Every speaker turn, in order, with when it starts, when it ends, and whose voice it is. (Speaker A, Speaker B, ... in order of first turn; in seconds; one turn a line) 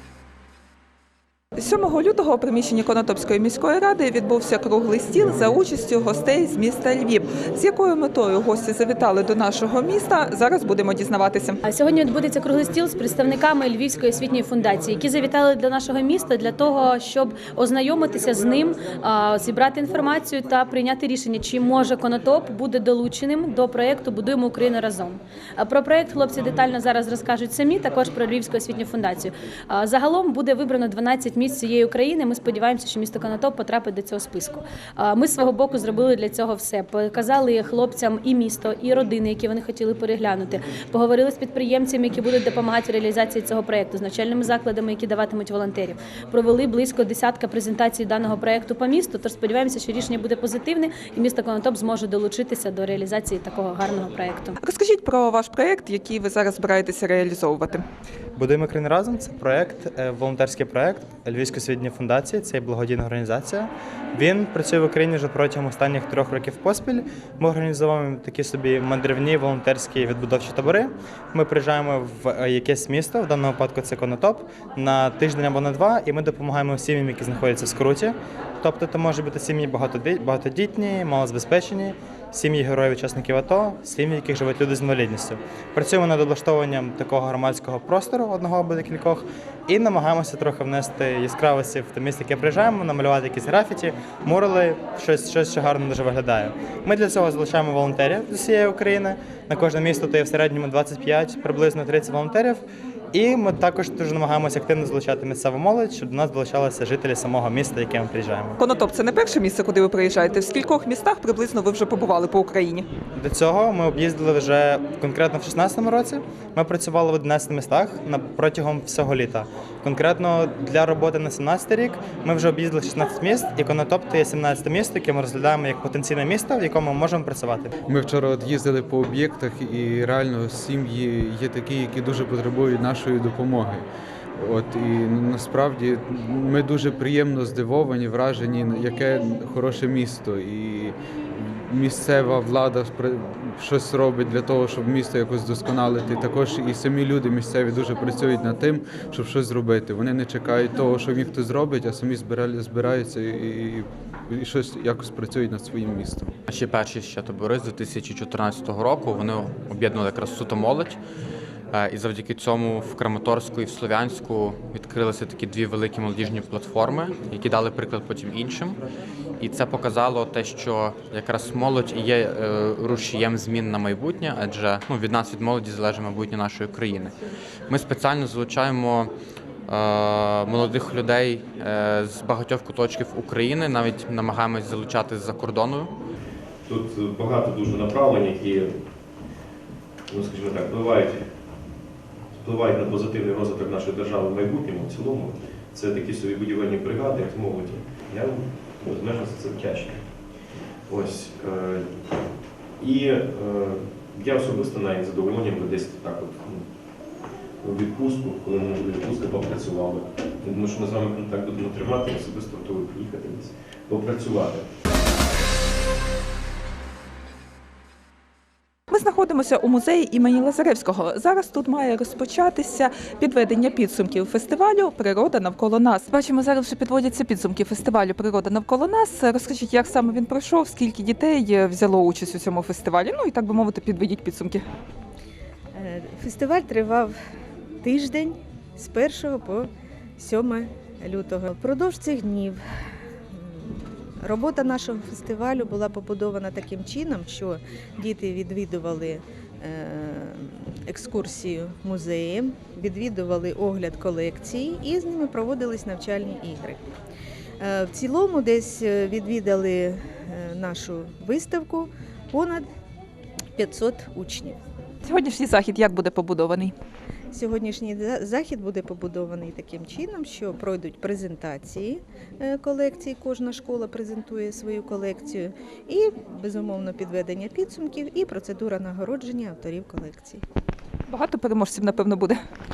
Speaker A: 1.6-11.6
Speaker B: 11.6-54.5
Speaker A: 54.6-57.8
Speaker C: 58.4-108.6
Speaker A: 108.6-112.8
Speaker C: 113.2-127.7
Speaker D: 127.9-133.8
Speaker D: 134.4-156.3
Speaker E: 156.5-161.0
Speaker E: 161.7-168.8
Speaker E: 169.4-177.1
Speaker E: 177.7-179.1
Speaker E: 179.7-185.9
Speaker F: 186.7-188.7
Speaker F: 190.1-191.2
Speaker F: 192.4-200.1
Speaker F: 200.9-201.8
Speaker F: 202.8-206.6
Speaker F: 207.6-214.6
Speaker A: 218.9-234.6
Speaker G: 235.7-237.1
Speaker G: 237.8-242.6
Speaker G: 243.3-256.9
Speaker G: 257.6-262.6
Speaker G: 263.6-264.6
Speaker A: 265.0-266.7
Speaker G: 267.3-280.4
Speaker A: 281.1-282.4